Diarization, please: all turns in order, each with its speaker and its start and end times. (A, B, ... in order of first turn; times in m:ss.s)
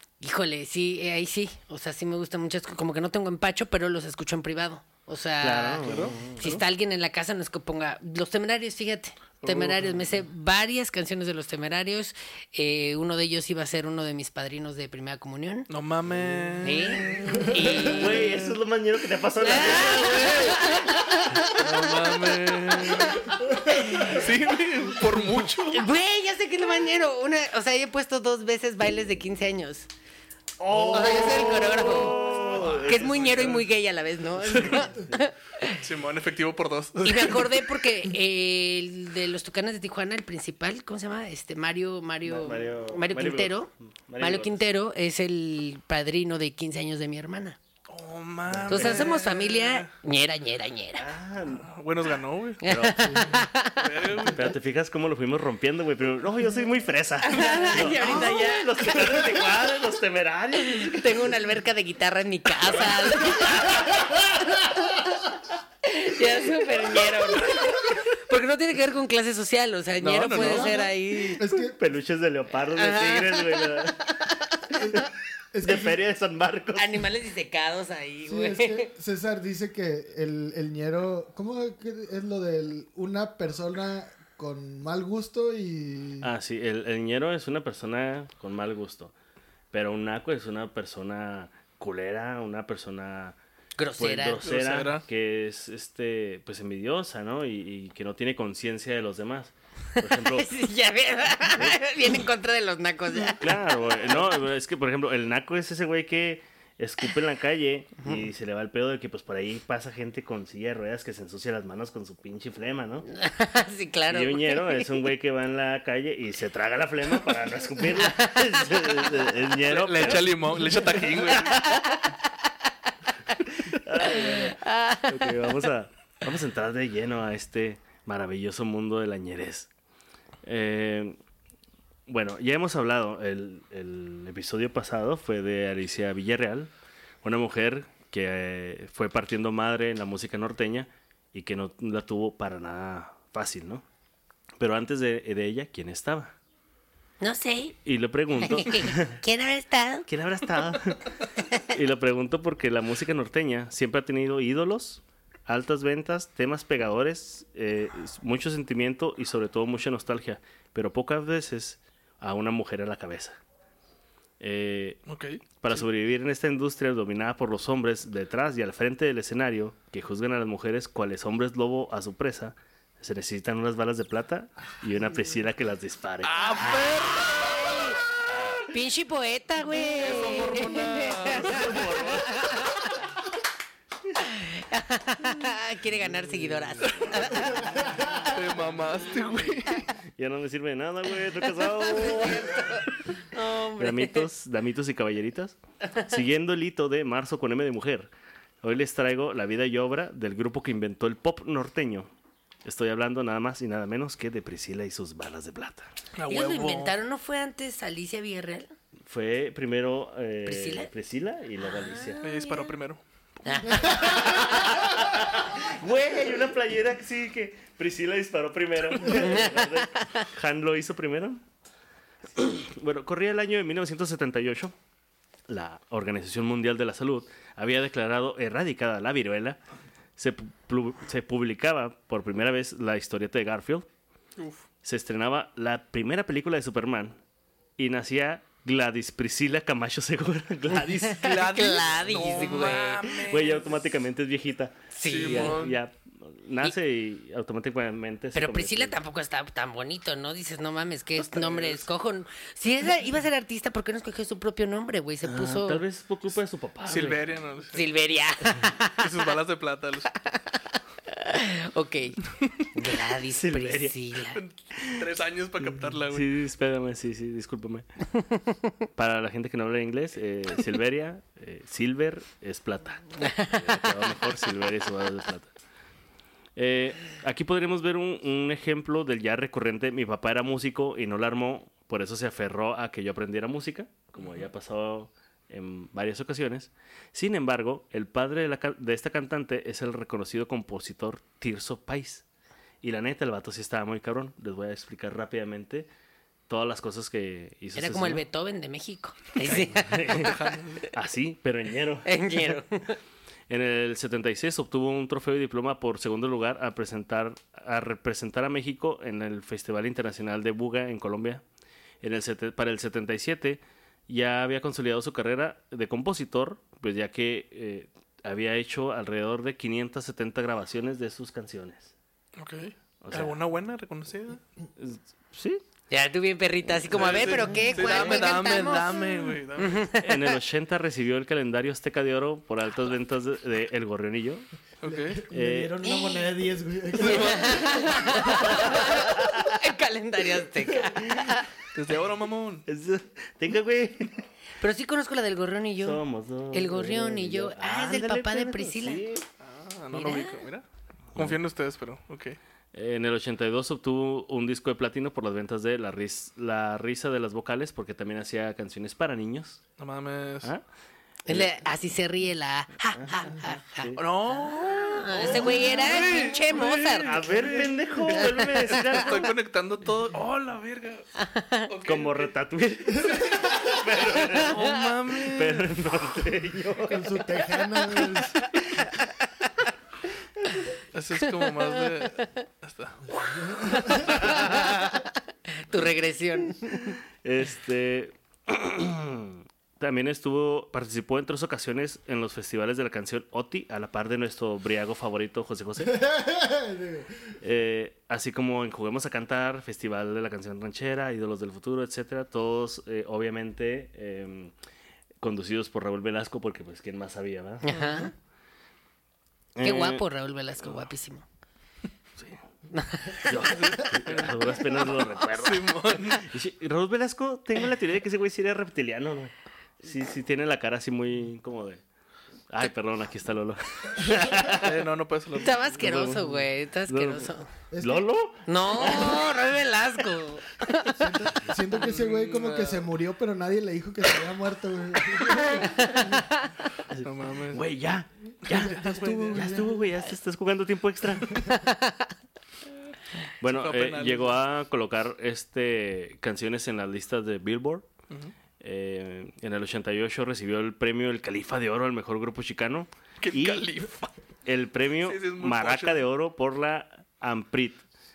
0:00.2-0:15.7 A
0:05.4-0:06.6 B
0:05.8-0:06.2 C
0:09.4-0:10.1 C
0:15.7-0:18.1 C
0:16.1-0:16.5 B
0:16.6-0:18.4 A
0:17.3-0:17.9 D
0:17.9-0:20.8 B
0:19.4-0:22.3 A
0:21.6-0:25.8 C
0:23.4-0:23.8 D
0:23.5-0:24.3 A
0:25.7-0:29.9 A
0:30.6-0:33.6 B
0:30.7-0:32.2 A
0:32.5-0:33.6 C
0:32.8-0:35.8 A
0:34.5-0:35.2 B
0:35.8-0:37.6 C
0:37.0-0:47.6 A
0:42.2-0:44.6 B
0:47.9-0:49.9 C
0:48.5-0:49.1 B
0:48.7-0:51.0 A
0:51.0-0:51.7 B
0:51.5-0:52.6 C
0:52.6-0:54.1 A
0:52.6-0:53.3 B
0:53.1-0:53.4 D
0:53.7-0:54.5 C
0:54.3-1:01.4 B
0:57.2-0:59.4 A
0:57.4-0:57.7 C
1:00.6-1:04.0 A
1:02.7-1:04.6 B
1:05.8-1:11.4 A
1:10.0-1:10.9 C
1:10.3-1:10.8 D
1:11.4-1:11.8 D
1:11.5-1:14.0 B
1:12.8-1:15.0 A
1:15.5-1:16.0 D
1:15.6-1:17.1 B
1:16.8-1:18.9 A
1:18.2-1:26.3 D
1:26.2-1:29.1 B
1:29.7-1:33.4 B
1:33.8-1:34.4 A
1:34.0-1:40.5 B
1:34.4-1:35.0 C
1:40.1-1:43.5 A
1:43.3-1:53.1 B
1:53.1-1:54.9 A
1:54.1-2:01.8 B
1:58.0-1:58.9 A
1:59.6-2:01.6 C
2:01.5-2:02.2 A
2:03.4-2:09.7 B
2:04.0-2:05.3 A
2:10.4-2:11.2 B
2:12.1-2:16.7 B
2:17.2-2:23.8 B
2:24.6-2:26.4 B
2:27.2-2:27.8 A
2:27.8-2:29.2 B
2:28.4-2:30.1 A
2:30.1-2:31.1 B
2:31.7-2:43.4 B
2:44.4-2:45.0 B
2:45.1-2:45.4 C
2:45.6-2:56.9 B
2:56.2-2:57.4 C
2:57.5-2:58.0 A
2:58.7-3:02.9 A
2:59.7-3:02.0 C
3:00.7-3:02.6 B
3:04.2-3:08.3 A
3:08.3-3:09.9 C
3:10.2-3:13.2 B
3:11.6-3:14.3 A
3:13.8-3:18.1 B
3:18.6-3:22.1 B
3:22.6-3:25.9 B
3:26.2-3:26.9 C
3:26.3-3:28.7 A
3:29.1-3:32.2 B
3:30.4-3:30.9 A
3:31.7-3:32.7 A
3:32.2-3:33.0 C
3:33.4-3:34.7 A
3:34.0-3:41.4 B
3:39.0-3:40.2 A
3:42.3-3:44.7 B
3:45.5-3:49.6 B
3:50.2-3:53.9 B
3:54.4-3:54.6 C
3:54.8-3:57.2 B
3:57.8-4:01.4 B
4:00.8-4:03.2 A
4:01.2-4:03.8 C
4:03.1-4:09.0 B
4:04.9-4:05.6 A
4:05.0-4:05.8 C
4:08.3-4:15.8 A
4:11.2-4:11.8 B
4:15.2-4:17.4 B
4:16.8-4:17.8 C
4:17.7-4:19.1 A
4:19.0-4:20.1 C
4:20.2-4:22.2 A
4:22.7-4:24.4 A
4:23.3-4:23.9 B
4:24.3-4:26.3 C
4:24.8-4:25.0 B
4:25.6-4:27.8 B
4:29.0-4:35.5 B
4:33.2-4:33.8 A
4:36.6-4:52.2 B
4:44.2-4:44.5 C
4:52.8-4:55.9 B
4:56.5-4:58.2 B
4:57.8-5:00.4 A
4:59.4-5:00.4 B
5:00.1-5:00.9 C
5:00.9-5:02.6 B
5:02.0-5:03.0 A
5:03.5-5:11.4 B
5:12.0-5:21.9 B
5:22.4-5:24.4 C
5:23.0-5:23.4 B
5:24.8-5:25.6 B
5:25.9-5:30.4 A
5:26.7-5:28.0 B
5:26.9-5:29.8 C
5:30.0-5:34.5 B
5:34.8-5:35.2 C
5:34.8-5:38.7 D
5:35.3-5:35.8 B
5:35.8-5:36.3 A
5:37.0-5:37.9 C
5:37.0-5:41.5 A
5:38.7-5:39.4 B
5:40.9-5:41.4 B
5:41.7-5:42.6 C
5:42.7-5:44.2 B
5:44.6-5:46.0 A
5:45.8-5:49.2 B
5:46.5-5:49.0 A
5:49.4-5:50.6 C
5:49.9-5:50.4 A
5:51.1-5:51.4 B
5:51.2-5:52.4 C
5:52.7-5:59.6 B
5:59.8-6:00.5 C
6:01.3-6:01.5 B
6:01.3-6:07.2 A
6:02.8-6:04.0 B
6:04.0-6:11.0 C
6:05.1-6:09.3 B
6:08.1-6:09.0 A
6:11.2-6:11.7 A
6:11.7-6:12.3 C
6:11.8-6:17.1 B
6:14.1-6:15.7 C
6:16.8-6:18.4 D
6:20.9-6:23.0 C
6:21.6-6:22.3 A
6:23.2-6:24.2 D
6:23.6-6:27.0 A
6:24.2-6:24.7 B
6:27.2-6:36.0 B
6:35.8-6:37.4 D
6:37.4-6:44.5 B
6:45.2-6:47.6 B
6:47.6-6:48.1 A
6:47.7-6:48.1 C
6:49.6-6:50.0 B
6:49.6-6:51.2 A
6:52.7-6:53.4 A
6:53.2-7:01.8 B
6:53.4-6:56.3 C
7:02.5-7:04.9 B
7:04.5-7:05.6 C
7:05.4-7:07.5 A
7:05.8-7:09.2 B
7:07.7-7:08.1 D
7:08.4-7:11.0 A
7:10.9-7:16.1 D
7:11.7-7:12.8 C
7:15.2-7:16.5 A
7:16.9-7:21.5 B
7:17.0-7:17.6 C
7:18.5-7:19.4 C
7:18.5-7:19.8 D
7:21.4-7:22.1 A
7:23.4-7:27.9 B
7:23.5-7:24.4 C
7:28.6-7:33.7 B
7:33.2-7:34.1 C
7:34.4-7:37.8 B
7:35.0-7:36.0 C